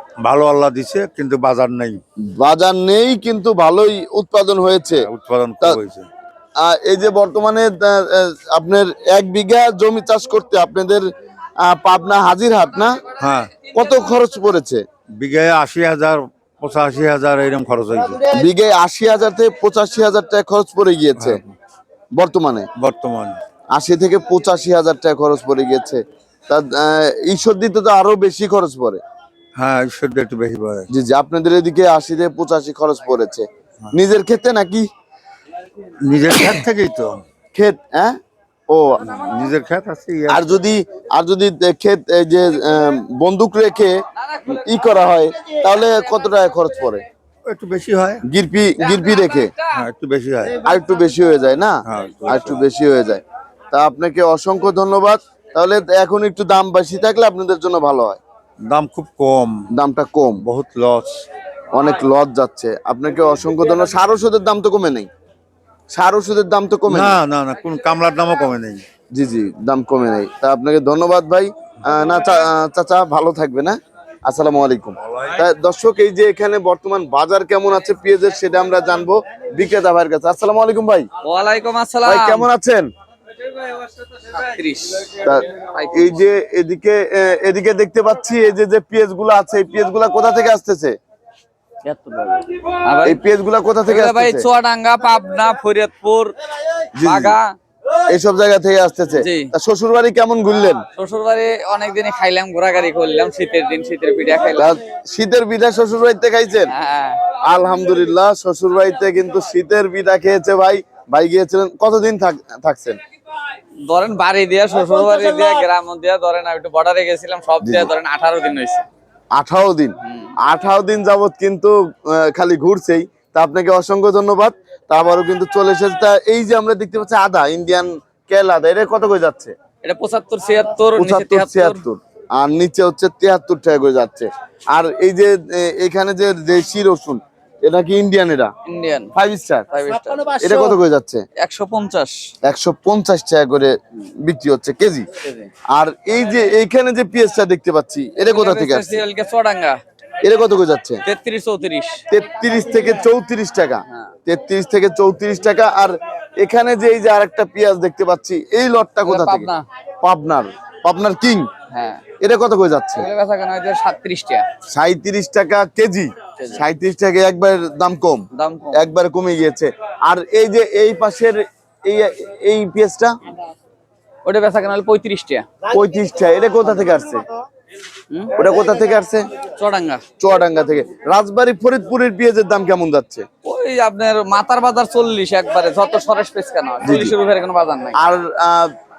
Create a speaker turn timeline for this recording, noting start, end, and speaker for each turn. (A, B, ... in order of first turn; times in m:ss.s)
0:00.2-0:02.0 A
0:02.3-0:05.1 B
0:05.0-0:06.1 A
0:06.6-0:11.0 B
0:11.6-0:13.0 B
0:13.2-0:13.5 A
0:13.7-0:14.8 B
0:15.2-0:18.2 A
0:18.3-0:21.4 B
0:21.2-0:21.5 A
0:22.1-0:22.7 B
0:22.8-0:23.4 A
0:23.7-0:29.0 B
0:29.6-0:30.9 A
0:30.9-0:34.9 B
0:36.0-0:37.2 A
0:37.5-0:38.2 B
0:38.7-0:39.0 B
0:39.0-0:40.6 A
0:40.3-0:44.0 B
0:44.2-0:44.6 C
0:44.5-0:47.0 B
0:47.4-0:48.2 A
0:48.3-0:49.5 B
0:49.7-0:50.6 A
0:50.6-0:58.2 B
0:51.8-0:52.7 A
0:58.6-0:59.7 A
0:59.7-1:00.4 B
1:00.4-1:01.3 A
1:01.7-1:05.1 B
1:05.9-1:07.2 B
1:06.9-1:08.8 A
1:09.1-1:21.1 B
1:15.0-1:15.4 A
1:21.2-1:22.5 C
1:22.0-1:22.9 B
1:23.6-1:26.2 C
1:25.2-1:31.0 B
1:31.8-1:33.2 C
1:33.0-1:34.4 B
1:33.8-1:36.3 C
1:37.0-1:37.4 B
1:37.0-1:37.5 C
1:38.1-1:40.8 B
1:39.2-1:39.5 C
1:41.0-1:44.8 C
1:44.6-1:46.7 B
1:46.7-1:47.2 C
1:47.4-1:53.0 B
1:53.8-1:58.8 C
1:57.6-1:57.9 B
1:59.3-2:09.5 B
2:00.0-2:00.3 C
2:09.8-2:11.8 C
2:11.0-2:18.5 B
2:18.6-2:19.1 C
2:19.1-2:19.7 B
2:19.7-2:20.8 C
2:20.4-2:21.2 B
2:21.4-2:22.1 C
2:22.4-2:25.1 B
2:25.2-2:25.5 C
2:25.7-2:29.0 B
2:28.2-2:29.8 C
2:30.2-2:31.0 B
2:31.0-2:32.0 C
2:32.1-2:39.5 B
2:39.0-2:39.6 C
2:40.0-2:41.5 B
2:41.7-2:42.0 C
2:42.2-2:43.1 B
2:43.0-2:44.4 C
2:44.7-2:53.2 B
2:48.3-2:48.8 C
2:54.2-2:55.5 C
2:55.7-2:57.2 B
2:58.4-2:59.3 B
2:59.6-3:00.0 C
3:00.2-3:03.2 B
3:03.4-3:08.0 C
3:06.8-3:07.1 B
3:08.0-3:08.7 B